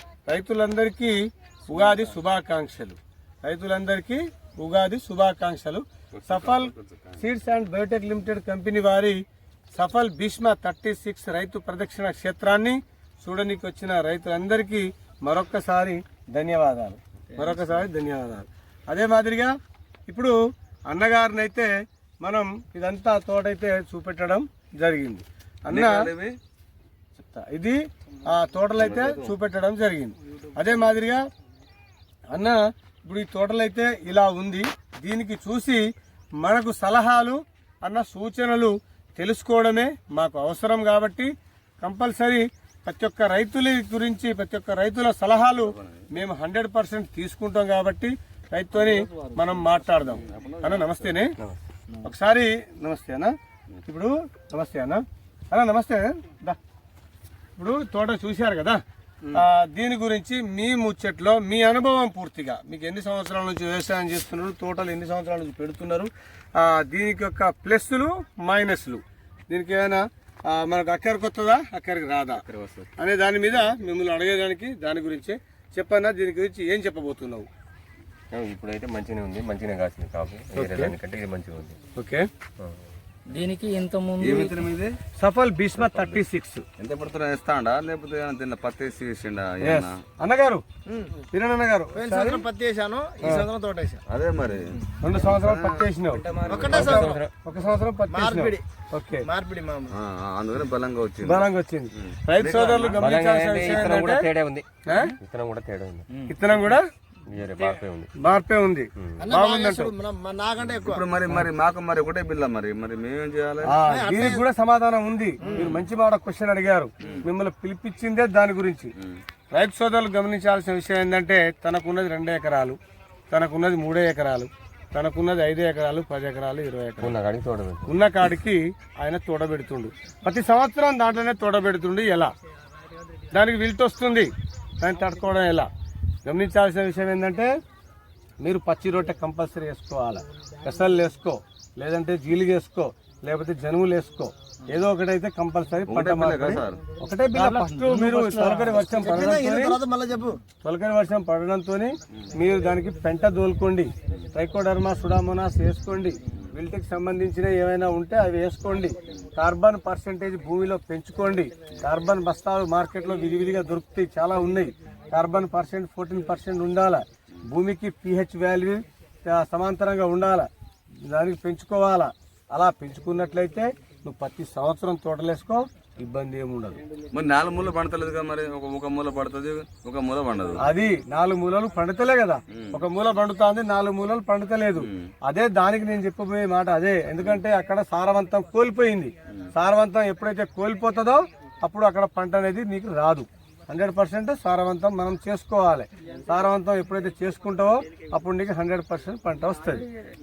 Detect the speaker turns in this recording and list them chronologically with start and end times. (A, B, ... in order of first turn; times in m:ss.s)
0:00.3-0:09.2 A
0:01.7-0:02.2 B
0:06.1-0:07.2 B
0:09.7-0:19.5 A
0:20.1-0:20.4 A
0:20.9-0:21.7 A
0:22.2-0:26.1 A
0:25.7-0:26.4 B
0:27.2-0:31.2 A
0:28.8-0:29.3 B
0:32.3-0:35.8 A
0:36.4-0:51.4 A
0:45.7-0:46.1 B
0:50.0-0:51.3 B
0:52.0-0:53.3 A
0:53.9-0:56.6 A
0:57.6-0:58.8 A
0:59.3-1:12.4 A
1:12.5-1:12.9 B
1:13.0-1:17.5 A
1:18.3-1:21.8 C
1:20.6-1:21.0 A
1:22.0-1:22.3 A
1:22.6-1:22.8 C
1:23.3-1:24.6 D
1:24.2-1:25.0 B
1:25.2-1:26.7 A
1:25.8-1:26.2 C
1:26.8-1:30.0 B
1:29.6-1:30.6 A
1:30.9-1:31.2 E
1:31.3-1:32.4 A
1:31.9-1:34.0 E
1:34.1-1:36.8 B
1:35.0-1:39.2 A
1:36.5-1:37.2 E
1:36.6-1:37.3 C
1:38.1-1:38.6 E
1:39.2-1:39.9 E
1:39.9-1:41.5 B
1:41.2-1:44.3 A
1:42.0-1:43.1 B
1:42.9-1:44.7 C
1:44.9-1:45.2 A
1:45.2-1:46.1 C
1:46.1-1:46.4 D
1:46.3-1:46.8 A
1:47.3-1:48.1 C
1:48.2-1:49.9 A
1:49.2-1:51.1 E
1:50.7-1:53.8 B
1:53.6-1:58.9 A
1:53.9-1:54.5 E
1:55.4-1:55.7 E
1:59.5-2:02.8 A
2:03.3-2:07.2 A
2:07.0-2:07.9 C
2:07.9-2:12.3 A
2:13.3-2:15.7 A
2:16.3-2:17.5 A
2:18.4-2:29.8 A
2:25.9-2:26.8 B
2:27.3-2:28.8 D
2:28.7-2:30.4 E
2:30.6-2:50.5 A
2:51.1-2:56.8 A
2:57.1-3:00.6 B
3:00.6-3:19.9 A
3:02.5-3:02.8 B
3:04.8-3:05.1 B